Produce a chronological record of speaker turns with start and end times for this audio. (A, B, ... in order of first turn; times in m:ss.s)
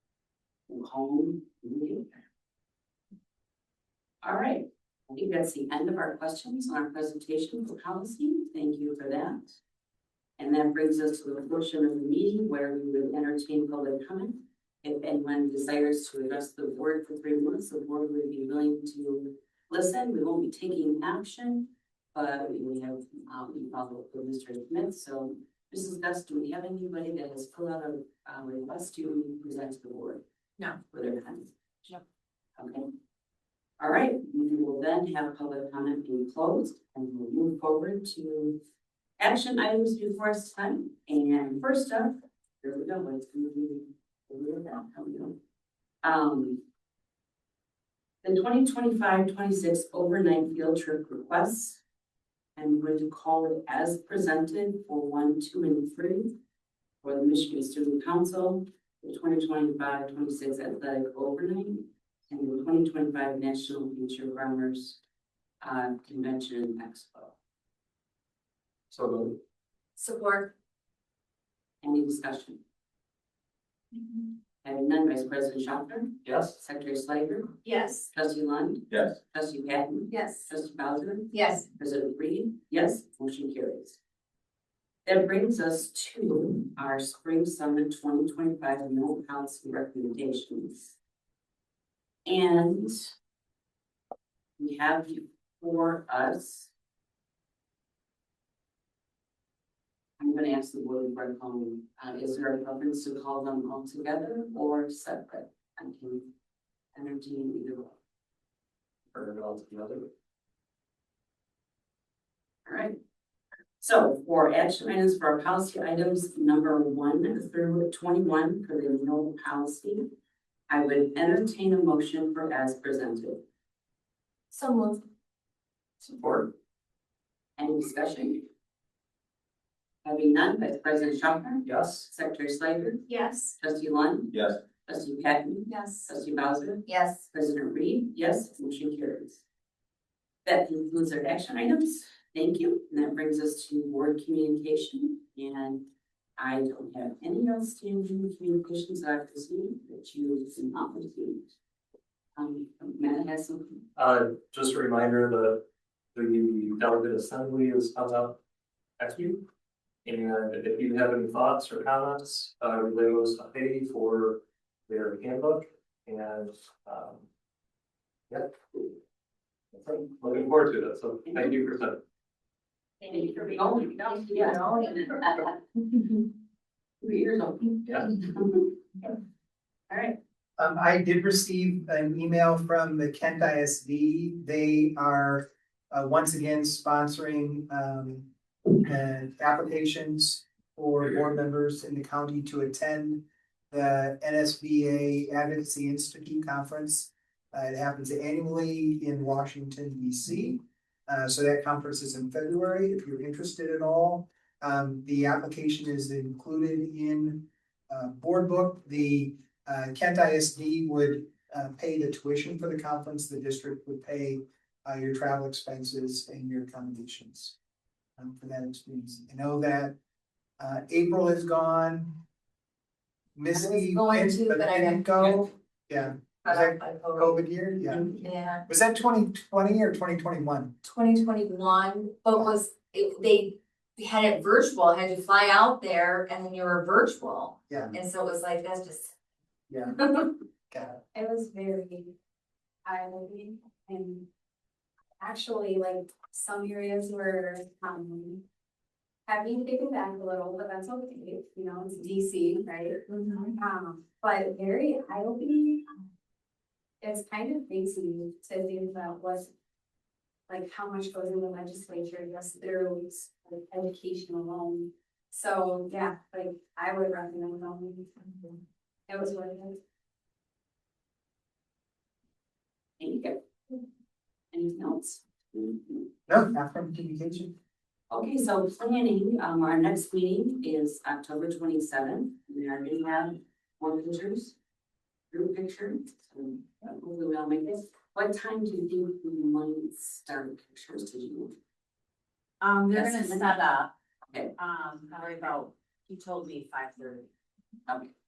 0:00.7-0:02.0 A
0:04.2-0:09.5 A
0:10.4-0:30.2 A
0:30.8-0:32.0 A
0:32.6-0:32.9 A
0:33.8-0:38.6 A
0:39.2-0:45.4 A
0:46.0-0:46.6 A
0:48.2-0:51.8 A
0:52.6-0:56.3 A
0:57.0-1:05.0 A
1:05.6-1:07.4 A
1:08.9-1:09.4 B
1:10.0-1:10.5 C
1:11.8-1:12.6 A
1:14.6-1:17.5 A
1:16.2-1:16.6 B
1:18.1-1:24.0 A
1:20.1-1:20.4 D
1:25.0-1:31.0 A
1:32.2-1:33.1 A
1:34.6-1:36.7 A
1:40.2-1:46.3 A
1:46.9-1:48.0 A
1:49.1-1:50.1 B
1:52.6-1:53.0 A
1:53.8-2:00.1 A
2:00.7-2:03.4 A
2:06.0-2:06.5 B
2:07.6-2:08.4 A
2:10.0-2:13.1 A
2:11.6-2:12.1 B
2:13.6-2:19.4 A
2:15.7-2:16.0 C
2:16.9-2:17.2 C
2:20.4-2:25.8 A
2:26.4-2:31.4 A
2:32.4-2:33.8 A
2:34.0-2:38.4 B
2:39.0-2:39.4 B
2:40.0-2:47.2 B
2:49.7-2:52.0 B
2:51.3-2:51.5 A
2:53.0-2:56.2 A
2:57.0-2:59.1 A
2:59.9-3:00.2 A
3:00.6-3:37.6 E
3:38.2-3:39.9 E
3:40.6-3:42.2 E
3:43.4-3:48.1 E
3:43.5-3:45.3 C
3:46.4-3:47.4 C
3:47.9-3:48.6 C
3:48.7-3:50.7 E
3:50.8-3:59.1 C
3:57.7-3:58.0 E
3:59.7-4:00.1 E
4:00.7-4:01.0 E
4:01.1-4:02.1 D
4:02.8-4:04.2 D
4:05.2-4:08.4 D
4:09.3-4:15.8 D
4:17.0-4:19.5 D
4:20.5-4:28.6 D
4:29.1-4:29.8 D
4:33.0-4:33.4 A
4:34.5-4:36.1 A
4:36.3-4:37.5 E
4:38.1-4:44.6 A
4:45.3-4:51.6 A
4:52.6-4:53.9 F
4:52.9-4:53.6 A
4:54.6-4:57.3 F
4:57.9-4:58.1 A